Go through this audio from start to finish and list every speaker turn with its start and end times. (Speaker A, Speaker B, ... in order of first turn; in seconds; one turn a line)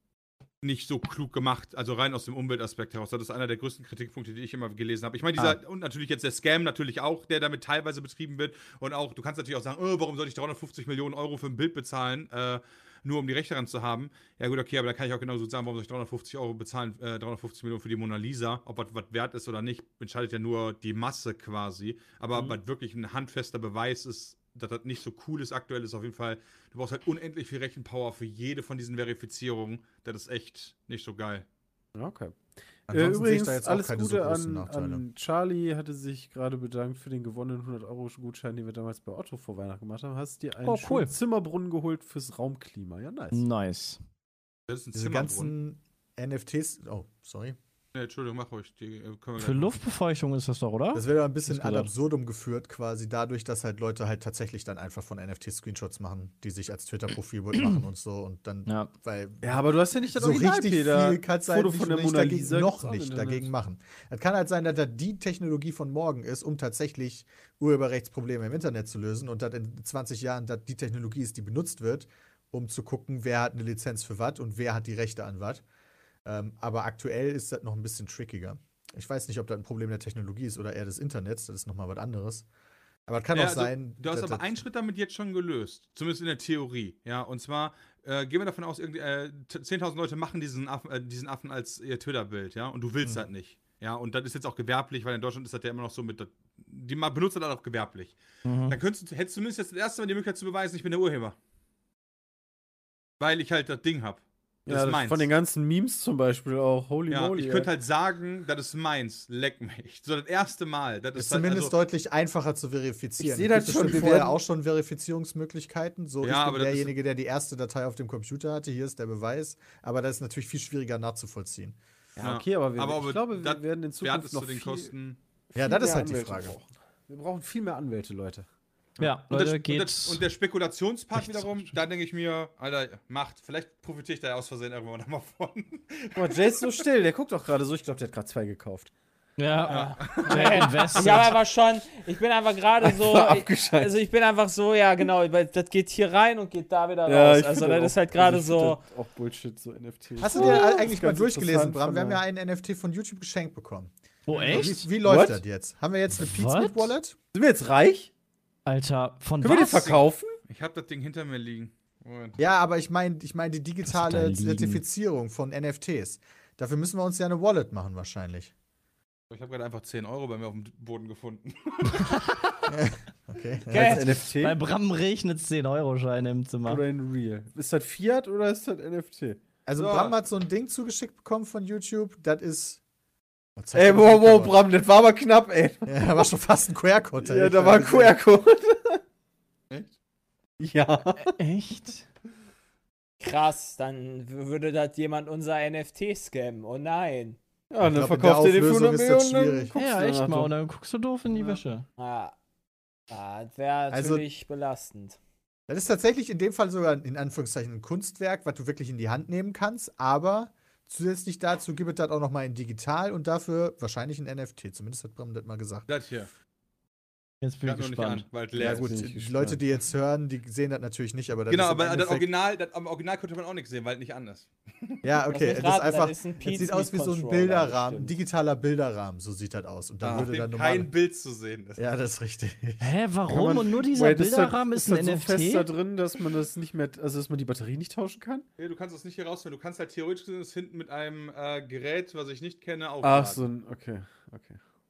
Speaker A: 0.6-31.5
Speaker B: 31.9-32.4
Speaker C: 32.9-35.0
Speaker B: 32.9-43.4
Speaker D: 40.6-41.1
Speaker D: 43.3-44.0
Speaker A: 44.7-45.5
Speaker C: 44.9-47.6
Speaker A: 47.9-49.8
Speaker D: 49.4-51.9
Speaker C: 50.9-59.6
Speaker D: 57.6-57.8
Speaker D: 58.7-58.9
Speaker B: 59.4-63.5
Speaker C: 60.1-75.6
Speaker C: 76.2-82.5
Speaker C: 83.1-84.6
Speaker A: 83.3-101.4
Speaker D: 98.5-98.8
Speaker A: 103.2-105.3
Speaker B: 104.7-107.7
Speaker A: 107.1-111.7
Speaker C: 111.2-121.8
Speaker B: 113.2-114.4
Speaker A: 116.2-116.9
Speaker B: 122.2-124.9
Speaker A: 122.2-125.2
Speaker B: 125.5-128.5
Speaker C: 125.6-126.5
Speaker D: 129.0-130.3
Speaker A: 129.0-136.8
Speaker D: 131.2-131.6
Speaker B: 136.2-138.9
Speaker D: 139.4-141.3
Speaker A: 139.7-141.1
Speaker E: 139.7-148.8
Speaker B: 142.8-143.9
Speaker B: 147.1-152.2
Speaker C: 150.2-153.9
Speaker D: 154.3-154.9
Speaker A: 154.3-154.7
Speaker C: 154.5-157.2
Speaker B: 154.6-155.4
Speaker D: 156.2-156.9
Speaker B: 157.3-158.1
Speaker D: 158.7-159.9
Speaker B: 159.4-160.4
Speaker A: 159.8-162.4
Speaker C: 162.4-168.5
Speaker D: 163.9-164.8
Speaker A: 169.3-172.2
Speaker D: 171.9-172.6
Speaker C: 172.7-174.1
Speaker E: 173.7-174.2
Speaker B: 173.7-174.6
Speaker D: 174.2-176.8
Speaker B: 176.7-179.4
Speaker C: 179.7-182.8
Speaker A: 179.8-180.2
Speaker C: 183.6-184.6
Speaker B: 183.8-186.1
Speaker C: 185.9-188.2
Speaker B: 187.2-189.0
Speaker B: 190.6-191.3
Speaker D: 191.2-192.1
Speaker E: 193.2-197.4
Speaker B: 197.7-200.5
Speaker C: 197.8-199.8
Speaker D: 199.8-201.9
Speaker E: 202.0-202.3
Speaker E: 203.1-205.2
Speaker C: 203.9-204.2
Speaker C: 205.7-215.9
Speaker A: 215.9-216.3
Speaker D: 217.4-218.3
Speaker A: 217.6-218.9
Speaker B: 218.6-219.6
Speaker C: 218.6-222.3
Speaker A: 221.5-225.0
Speaker C: 225.0-230.9
Speaker E: 225.3-228.2
Speaker A: 230.0-231.8
Speaker C: 231.8-232.9
Speaker D: 232.8-235.7
Speaker B: 233.3-238.5
Speaker A: 238.6-243.4
Speaker B: 243.0-244.6